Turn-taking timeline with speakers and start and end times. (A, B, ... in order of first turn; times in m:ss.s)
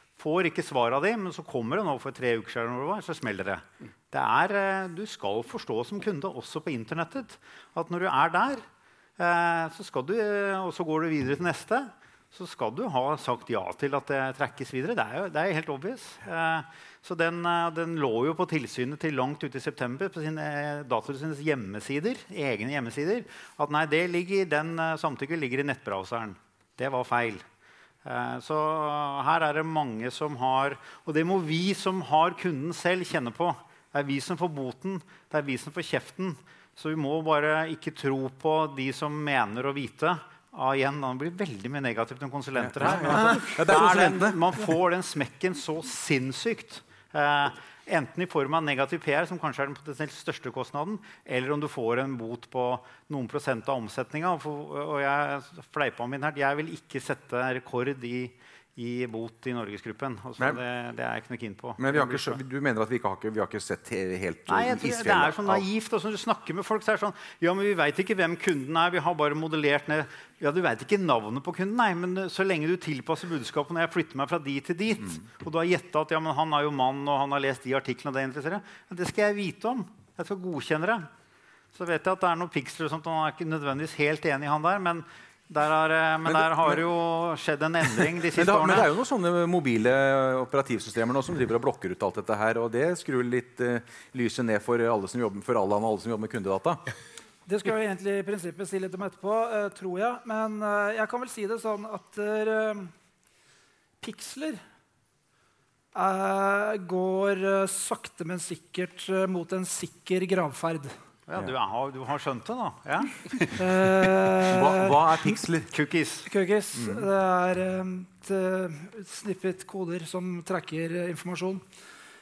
0:00.2-0:08.6 A
0:09.2-0:27.4 A
0:28.0-1:02.4 A
0:42.6-0:44.4 B
1:01.8-1:05.6 B
1:04.5-1:21.1 A
1:21.7-1:28.9 A
1:28.3-1:36.8 B
1:37.4-1:42.9 C
1:44.0-1:44.6 C
1:45.9-1:50.9 C
1:51.3-1:53.5 A
1:53.6-1:55.0 C
1:54.5-1:55.7 B
1:55.7-1:56.3 A
1:56.2-2:01.6 C
1:56.8-1:57.1 B